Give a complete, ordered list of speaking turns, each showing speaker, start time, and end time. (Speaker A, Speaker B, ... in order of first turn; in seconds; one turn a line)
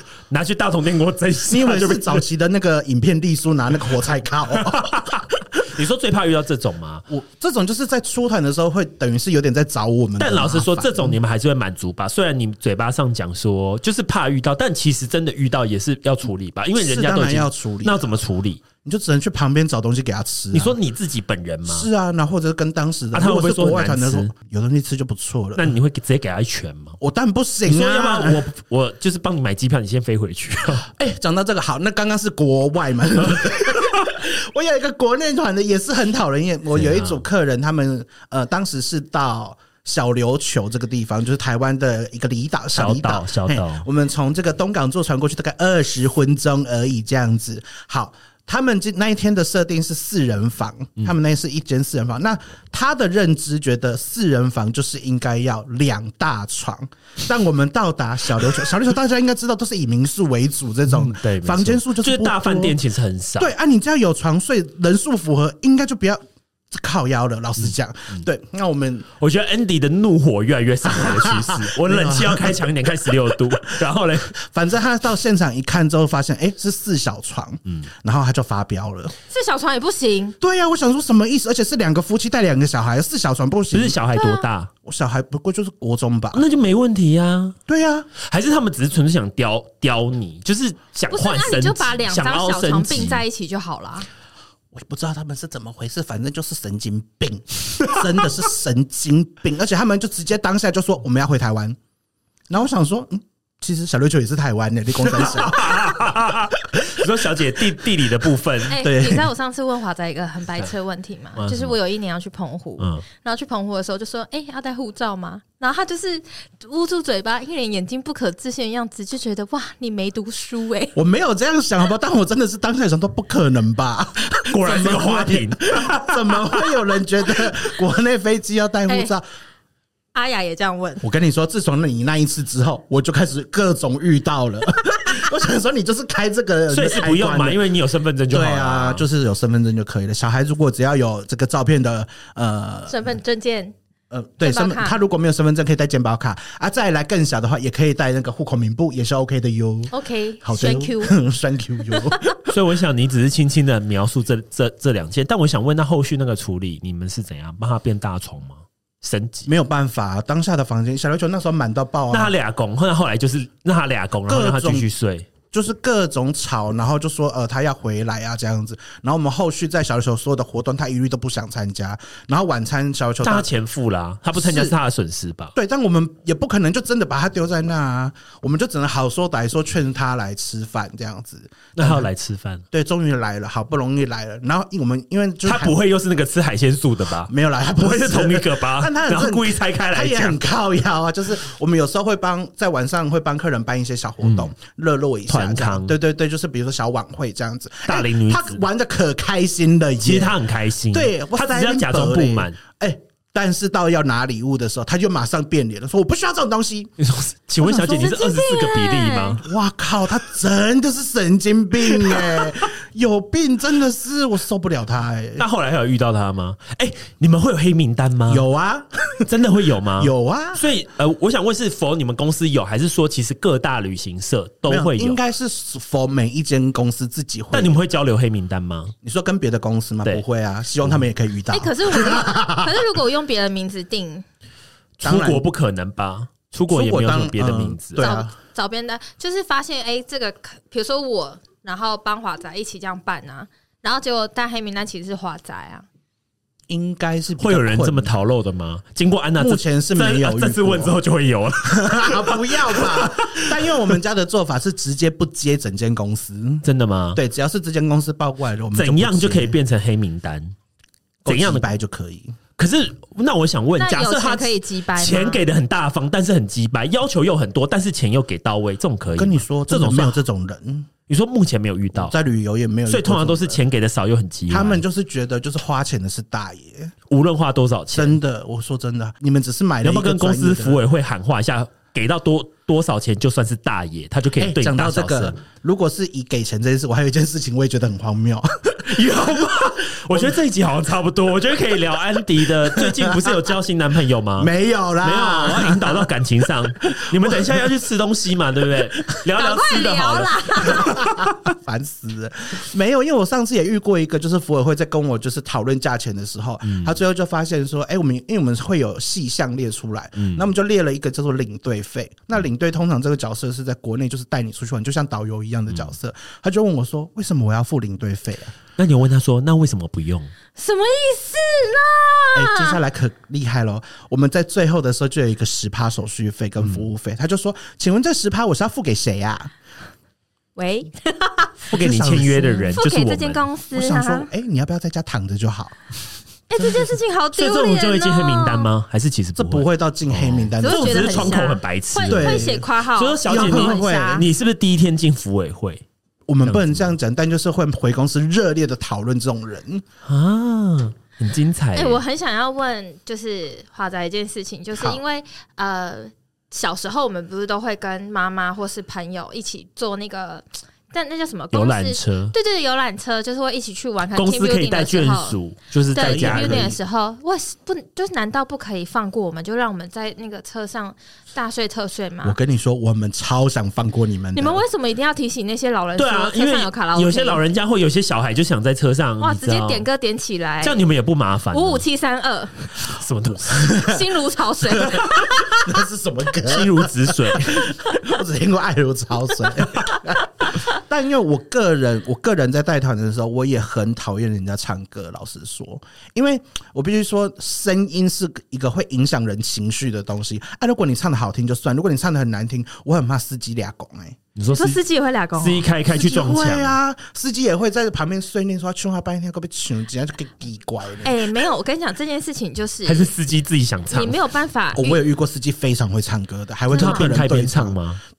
Speaker A: 0.3-2.2
Speaker B: 1.5-5.1
Speaker A: 4.5-7.0
Speaker B: 7.1-11.2
Speaker A: 10.2-18.6
Speaker B: 16.8-18.1
Speaker B: 18.8-20.8
Speaker A: 20.5-21.9
Speaker B: 21.7-25.7
Speaker A: 23.1-24.3
Speaker A: 25.6-27.0
Speaker B: 27.0-28.4
Speaker A: 27.6-30.9
Speaker B: 30.9-62.8
Speaker A: 36.7-37.2
Speaker A: 42.7-43.9
Speaker A: 60.9-63.5
Speaker B: 63.4-69.1
Speaker A: 67.6-68.2
Speaker A: 69.2-74.3
Speaker B: 70.9-73.7
Speaker B: 74.3-79.1
Speaker C: 79.3-80.3
Speaker B: 80.4-84.0
Speaker A: 83.7-84.7
Speaker C: 84.1-84.4
Speaker B: 84.8-86.5
Speaker A: 86.3-87.6
Speaker B: 87.7-88.1
Speaker A: 88.2-93.2
Speaker C: 91.1-94.1
Speaker B: 94.7-101.8
Speaker B: 102.5-106.1
Speaker A: 105.0-108.8
Speaker C: 108.7-121.0
Speaker B: 108.8-109.3
Speaker A: 111.4-111.8
Speaker A: 112.8-113.0
Speaker B: 120.9-129.2
Speaker A: 124.5-126.8
Speaker C: 128.9-129.1
Speaker C: 130.1-131.1
Speaker B: 131.0-137.6
Speaker A: 136.7-139.1
Speaker B: 138.3-143.2
Speaker C: 142.9-143.7
Speaker B: 144.1-149.9
Speaker C: 144.4-144.9
Speaker C: 149.9-151.2
Speaker B: 150.4-152.4
Speaker C: 151.9-152.2
Speaker A: 152.5-159.5
Speaker B: 159.5-162.3
Speaker A: 162.1-165.3
Speaker B: 164.3-164.9
Speaker B: 165.5-173.5
Speaker A: 173.2-175.5
Speaker B: 174.3-174.8
Speaker B: 175.5-182.1
Speaker A: 181.8-182.6
Speaker B: 182.7-185.8
Speaker A: 185.4-190.4
Speaker B: 187.3-200.4
Speaker A: 194.2-194.5
Speaker A: 195.3-195.9
Speaker A: 197.8-198.6
Speaker A: 200.0-202.6
Speaker B: 200.9-206.9
Speaker A: 207.0-209.4
Speaker C: 207.7-209.4
Speaker B: 207.7-208.1
Speaker B: 209.4-215.4
Speaker A: 215.4-218.4
Speaker B: 218.3-219.3
Speaker A: 219.2-225.2
Speaker B: 220.0-220.6
Speaker B: 224.7-227.8
Speaker A: 227.5-228.9
Speaker B: 229.0-232.8
Speaker C: 231.5-234.2
Speaker A: 235.0-238.1
Speaker B: 235.0-235.4
Speaker B: 236.7-238.3
Speaker C: 238.0-245.8
Speaker B: 246.7-248.1
Speaker A: 247.4-253.7
Speaker B: 249.4-251.0
Speaker B: 251.7-259.6
Speaker A: 256.6-257.2
Speaker A: 258.7-260.5
Speaker B: 261.2-262.4
Speaker A: 261.2-261.6
Speaker A: 262.6-270.2
Speaker C: 263.8-265.4
Speaker B: 269.1-270.9
Speaker A: 271.1-272.1
Speaker B: 271.9-273.6
Speaker A: 272.9-274.8
Speaker B: 274.5-276.9
Speaker A: 277.1-278.2
Speaker B: 277.9-280.8
Speaker A: 279.8-285.4
Speaker B: 284.4-290.4
Speaker A: 288.8-300.8
Speaker B: 292.7-293.4
Speaker B: 294.4-296.1
Speaker B: 297.0-297.6
Speaker C: 299.4-301.2
Speaker B: 300.7-318.5
Speaker A: 306.6-307.0
Speaker A: 310.2-310.4
Speaker A: 318.8-320.3
Speaker C: 320.6-322.8
Speaker B: 322.3-329.5
Speaker A: 326.6-326.9
Speaker C: 330.6-331.6
Speaker A: 331.7-333.4
Speaker B: 331.7-332.7
Speaker C: 332.7-334.3
Speaker B: 333.7-335.8
Speaker C: 336.5-338.7
Speaker A: 337.4-345.8
Speaker B: 339.4-341.4
Speaker C: 340.6-344.3
Speaker B: 342.1-342.7
Speaker B: 343.2-344.2
Speaker B: 346.3-349.8
Speaker A: 346.4-346.9
Speaker A: 350.0-352.0
Speaker C: 351.7-365.4
Speaker A: 361.5-362.3
Speaker A: 364.1-366.7
Speaker C: 365.9-372.4
Speaker B: 366.0-366.8
Speaker B: 372.2-374.6
Speaker C: 374.3-377.4
Speaker A: 376.0-379.8
Speaker C: 379.2-380.8
Speaker A: 380.6-381.8
Speaker C: 381.5-382.9
Speaker A: 382.9-383.7
Speaker C: 383.6-385.6
Speaker B: 384.8-404.2
Speaker A: 386.4-387.6
Speaker A: 404.4-404.8
Speaker C: 404.5-405.7
Speaker A: 405.4-406.8
Speaker B: 405.9-411.4
Speaker C: 411.0-413.1
Speaker A: 412.9-414.2
Speaker C: 413.9-415.0
Speaker B: 414.7-417.8
Speaker A: 416.7-418.0
Speaker C: 416.7-417.1